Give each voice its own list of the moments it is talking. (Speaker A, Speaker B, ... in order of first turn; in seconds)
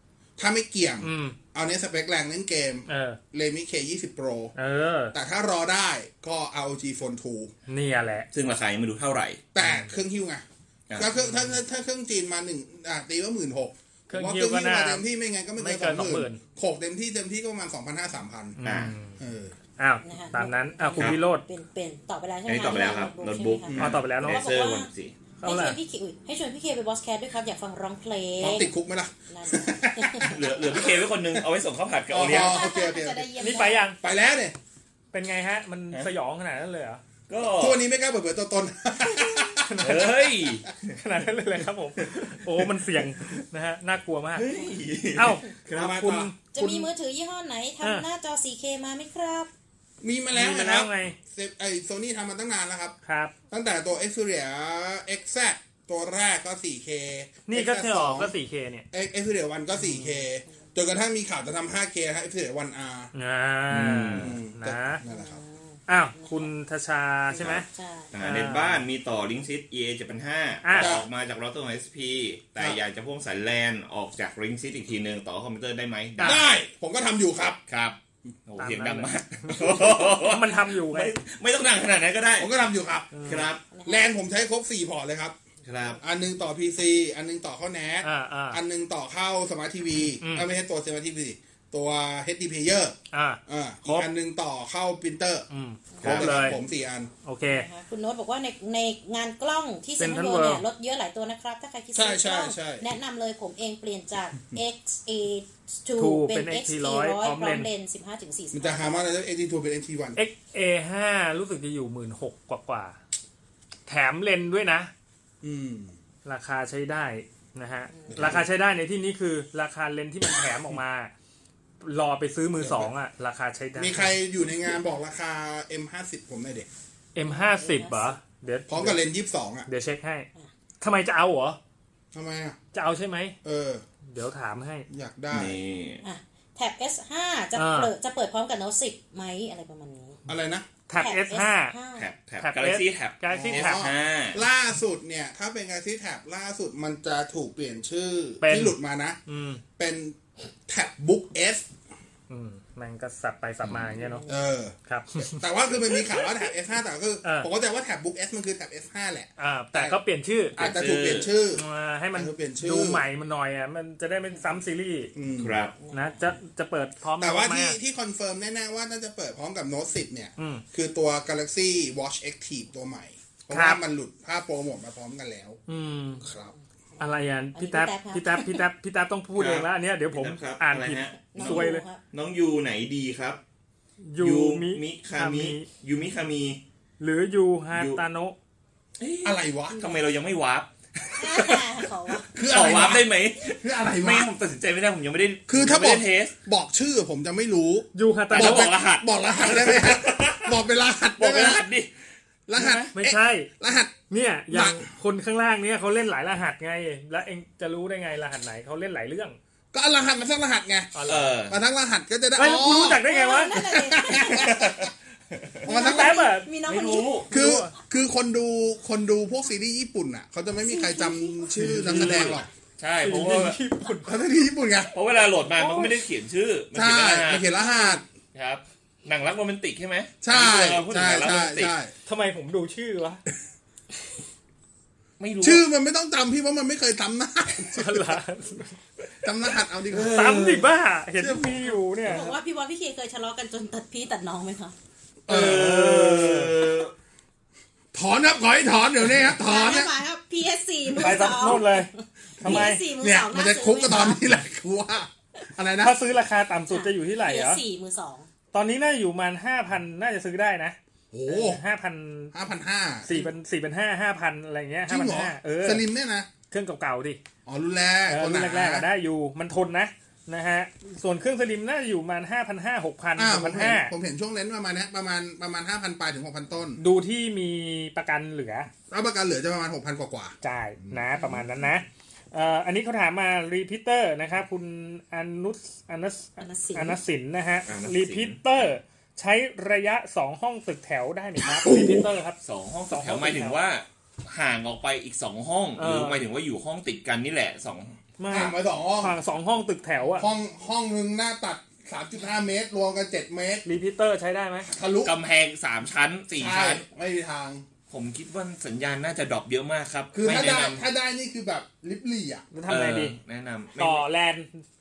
Speaker A: 0.4-4.5, 5.1-7.5, 9.5-18.6, 19.2-19.5, 23.7-24.0, 28.4-31.4, 32.1-34.5, 37.6-39.9, 45.7-46.9, 50.0-53.0, 53.5-58.3, 58.9-63.1, 64.2-65.4, 70.8-71.0, 76.2-77.6, 82.4-83.2, 83.8-85.3, 86.0-93.0, 93.5-95.5, 96.0-97.1, 101.9-102.8, 108.5-110.2, 115.4-115.9, 118.1-118.4, 122.6-122.9, 123.8-126.7, 128.7-129.7, 132.1-132.6, 133.4-133.8, 134.9-135.6, 140.3-140.7, 143.3-149.2, 149.8-151.7, 154.3-160.0, 160.5-163.0, 165.1-165.6, 167.2-175.6, 176.2-176.5, 189.2-189.8, 192.3-194.3, 195.5-201.7, 202.5-204.0, 204.5-204.9, 209.7-214.9, 215.6-216.3, 217.3-222.5, 224.0-224.9, 226.7-228.0, 230.2-231.9, 235.4-238.2, 239.2-240.2, 241.2-241.7, 245.3-245.7, 247.9-249.9, 252.4-256.0, 261.1-261.6, 262.3-263.1, 264.9-266.3, 267.4-268.9, 273.1-276.8, 278.9-281.0, 291.4-292.1, 298.3-299.1, 300.2-303.6, 304.6-305.1, 306.4-307.6, 310.1-312.5
Speaker B: 1.0-1.4, 2.9-3.2, 4.5-5.1, 7.7-8.3, 9.6-9.9, 11.2-11.5, 14.1-15.0, 15.6-16.4, 18.6-19.2, 19.8-21.4, 23.8-24.4, 25.4-25.8, 33.4-34.0, 35.1-37.0, 39.6-40.2, 40.9-44.5, 45.1-46.4, 50.3-51.1, 53.0-53.3, 57.5-58.9, 59.8-60.2, 63.1-65.0, 65.9-67.7, 68.2-68.8, 70.6-70.9, 78.6-81.1, 83.1-83.5, 88.0-88.6, 90.2-90.5, 93.1-94.1, 95.5-96.6, 97.2-97.7, 100.0-100.6, 106.0-107.7, 110.2-113.0, 113.9-114.9, 116.2-121.1, 121.8-124.2, 127.1-129.0, 129.7-130.3, 130.8-131.6, 132.7-133.3, 134.1-134.9, 137.5-137.9, 140.9-141.7, 142.4-143.8, 148.4-149.6, 152.3-154.2, 154.9-155.2, 157.2-157.5, 159.4-160.7, 161.5-165.1, 165.9-167.8, 170.4-170.6, 173.5-173.8, 175.7-176.2, 177.0-181.8, 184.0-185.7, 187.0-188.3, 197.9-198.7, 202.9-203.5, 204.1-209.4, 210.9-211.3, 212.3-213.6, 215.7-216.5, 217.3-217.7, 221.7-222.3, 223.0-224.2, 232.1-233.2, 237.7-238.7, 240.1-242.3, 245.3-246.5, 250.9-252.8, 255.8-257.6, 258.5-262.3, 263.0-265.8, 266.5-267.2, 268.1-273.9, 276.8-278.7, 280.4-292.4, 292.9-293.6, 295.8-296.2, 298.2-300.3, 303.6-304.7, 312.5-313.1, 313.8-314.6
Speaker C: 8.3-9.4, 18.6-18.9, 22.5-25.1, 30.2-32.7, 37.3-37.8, 39.8-40.9, 42.0-42.3, 44.3-45.9, 63.7-64.3, 67.4-76.5, 77.7-82.6, 83.2-83.6, 85.7-86.0, 96.0-96.3, 135.3-136.0, 141.9-144.4, 160.6-161.3, 165.4-165.7, 179.3-183.4, 184.2-186.6, 187.7-188.0, 189.0-196.3, 198.3-200.6, 201.2-201.9, 202.6-202.9, 211.1-211.6, 214.2-215.6, 216.7-217.3, 221.6-223.6, 224.9-227.5, 228.3-231.7, 235.2-235.6, 239.9-240.7, 245.3-246.9, 287.7-288.7, 292.4-297.9, 305.0-306.8, 307.9-310.9, 312.7-314.0
Speaker D: 20.0-24.9, 25.4-28.7, 29.3-30.3, 32.2-33.9, 46.5-49.5, 65.0-66.5, 67.3-68.1, 83.7-84.0, 97.5-108.9, 117.9-118.3, 127.2-128.1, 136.0-140.2, 141.0-142.1, 154.0-154.4, 165.8-166.2, 177.0-178.6, 181.3-182.0, 189.7-190.0, 191.2-192.3, 212.4-214.7, 215.7-217.3, 220.6-221.5, 242.0-244.8, 249.2-254.2, 256.7-258.3, 281.1-281.7, 286.4-287.0